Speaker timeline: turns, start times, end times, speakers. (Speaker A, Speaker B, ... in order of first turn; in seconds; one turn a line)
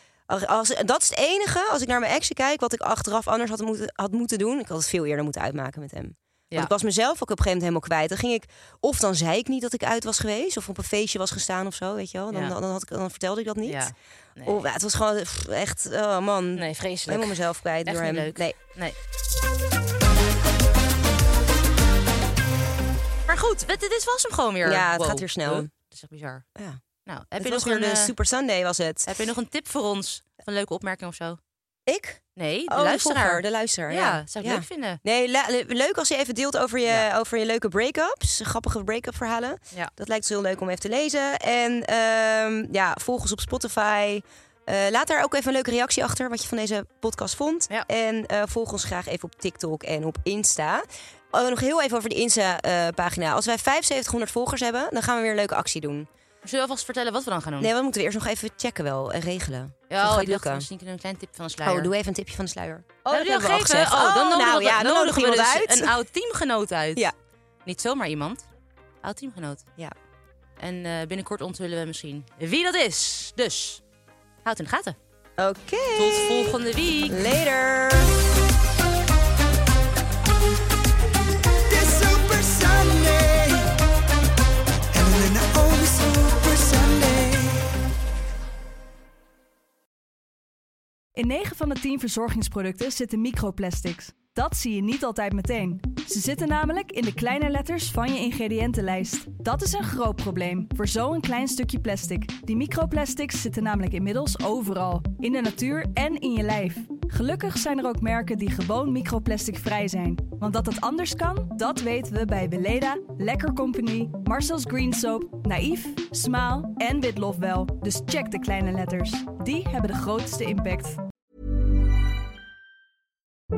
Speaker A: 0.3-18.6
Speaker B: 13.6-14.7
Speaker B: 16.6-18.9
Speaker B: 23.3-26.4
Speaker A: 24.6-25.7
Speaker B: 27.1-28.1
Speaker A: 27.4-29.1
Speaker B: 29.1-31.4
Speaker A: 31.9-56.1
Speaker B: 32.4-35.0
Speaker B: 56.4-57.7
Speaker A: 57.6-60.7
Speaker B: 59.9-61.9
Speaker A: 61.6-65.9
Speaker B: 63.1-67.1
Speaker B: 67.6-68.4
Speaker B: 69.0-69.6
Speaker B: 70.6-73.8
Speaker B: 74.4-75.0
Speaker A: 75.4-78.1
Speaker B: 76.0-77.3
Speaker C: 81.7-83.7
Speaker C: 84.9-87.7
Speaker D: 91.2-121.0